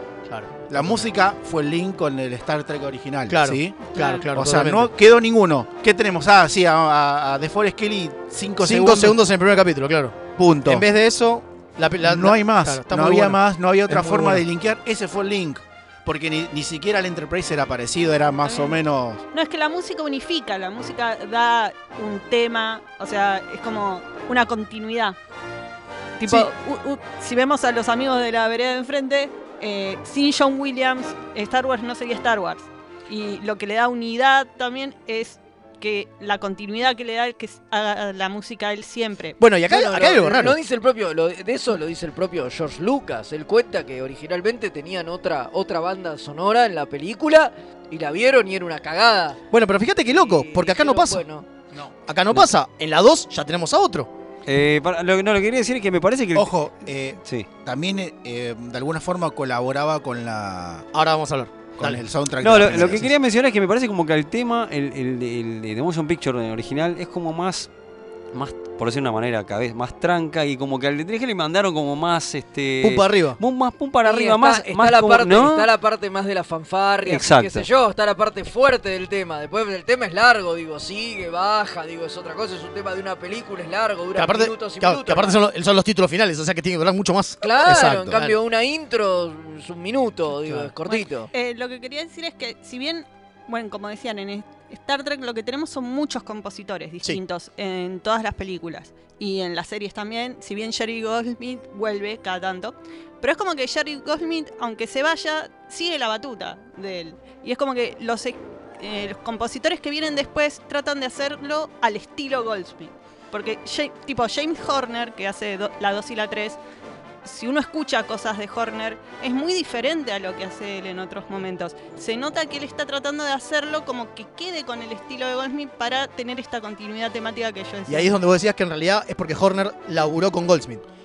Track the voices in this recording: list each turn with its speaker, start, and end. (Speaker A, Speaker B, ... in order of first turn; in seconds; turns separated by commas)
Speaker A: 0.3-1.1, Speaker B: 0.7-9.2, Speaker A: 3.3-4.9, Speaker C: 3.9-4.3, Speaker A: 8.6-14.4, Speaker B: 10.4-10.8, Speaker B: 12.0-19.2, Speaker C: 18.4-18.8, Speaker C: 19.3-25.2, Speaker C: 26.2-39.4, Speaker A: 39.4-40.6, Speaker D: 39.7-49.4, Speaker A: 49.5-51.2, Speaker D: 50.1-51.5, Speaker A: 52.0-54.1, Speaker E: 54.5-56.6, Speaker B: 56.3-60.9, Speaker A: 60.9-62.0, Speaker B: 61.8-63.1, Speaker E: 62.4-67.7, Speaker E: 68.3-75.7, Speaker A: 72.8-73.4, Speaker D: 74.0-85.4, Speaker E: 77.0-77.7, Speaker A: 84.1-88.4, Speaker D: 87.4-91.3, Speaker A: 90.4-90.7, Speaker C: 90.8-116.6, Speaker C: 117.2-128.1, Speaker A: 127.9-130.8